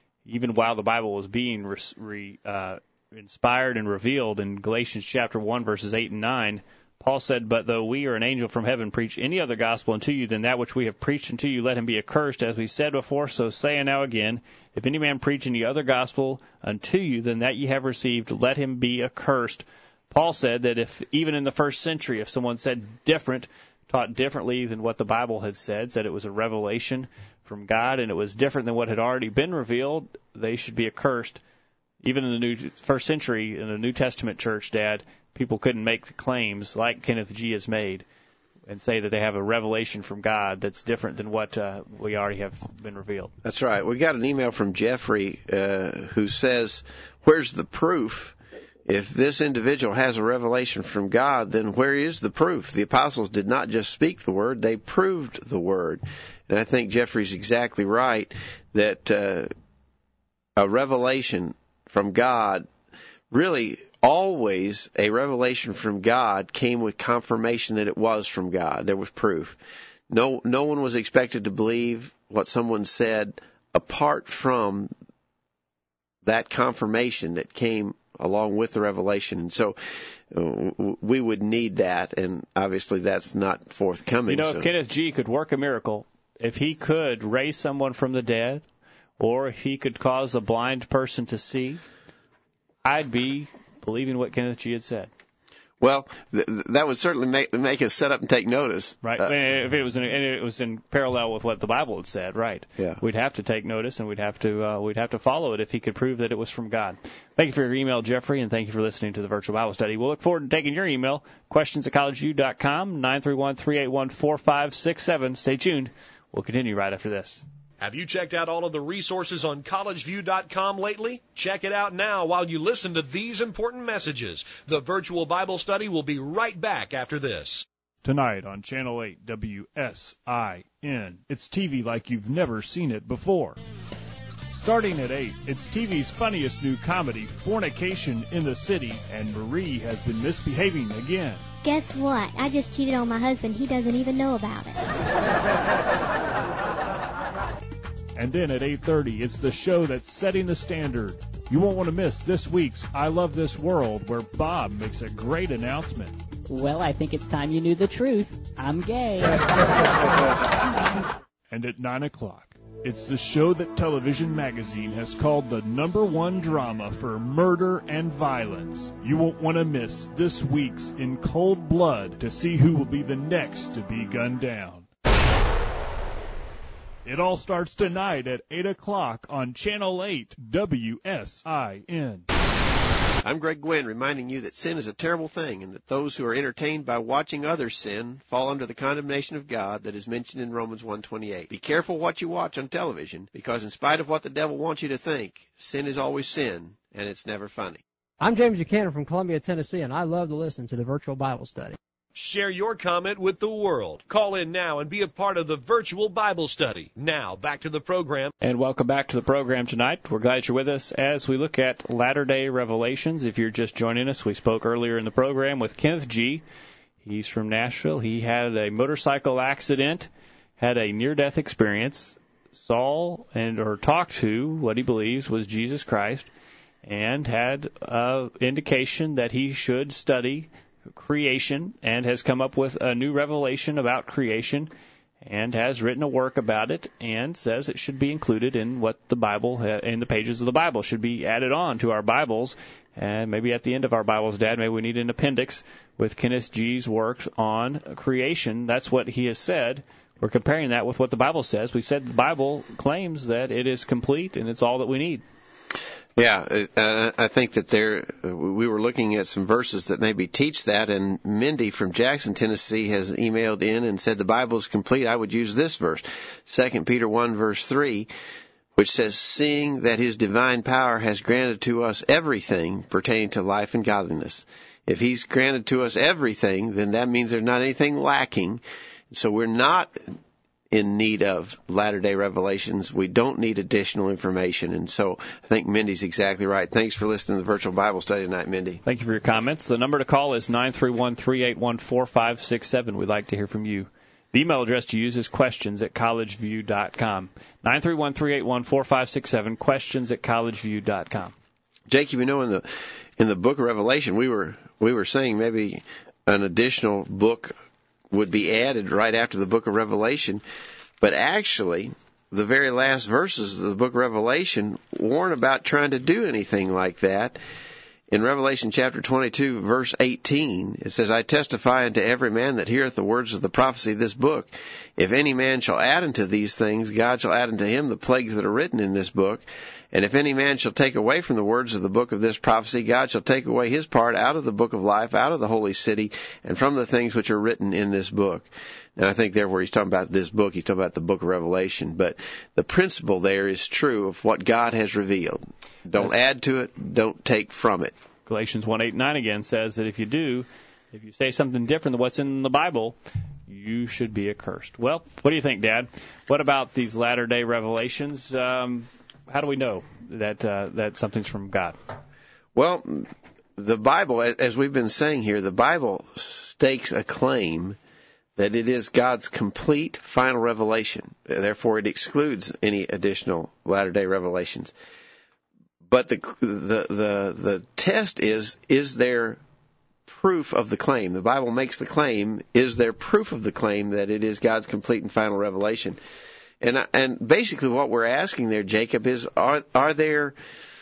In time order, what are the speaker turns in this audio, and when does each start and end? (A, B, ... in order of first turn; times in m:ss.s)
0:00.2-0:31.4 A
0:32.0-0:38.0 A
0:38.7-0:43.3 A
0:43.4-0:59.5 B
1:00.6-1:02.7 B
1:03.3-1:14.9 B
1:16.2-1:19.8 B
1:20.3-1:24.7 B
1:24.3-1:28.6 A
1:29.2-1:31.8 A
1:32.8-1:35.1 A
1:35.8-1:39.3 B
1:39.0-1:57.4 A
1:57.8-2:07.7 C
2:08.0-2:13.6 D
2:14.6-2:21.4 D
2:21.6-2:24.8 E
2:28.2-2:36.2 D
2:36.5-2:39.7 F
2:41.5-2:54.9 D
2:57.0-3:02.3 D
3:03.2-3:17.8 B
3:18.2-3:21.8 G
3:22.2-3:28.3 C
3:28.4-3:36.4 A
3:37.0-3:46.3 A
3:46.8-3:54.7 A
3:55.2-4:15.2 A
4:16.2-4:28.1 B
4:28.8-4:40.1 B
4:40.7-4:48.8 B
4:48.8-5:01.3 A
5:01.9-5:07.6 B
5:08.1-5:10.4 B
5:11.0-5:17.4 B
5:18.1-5:48.0 B
5:48.3-5:53.0 A
5:53.5-6:01.8 A
6:02.6-6:07.8 B
6:08.4-6:14.7 B
6:15.9-6:19.4 B
6:20.1-6:26.0 B
6:26.6-6:30.4 B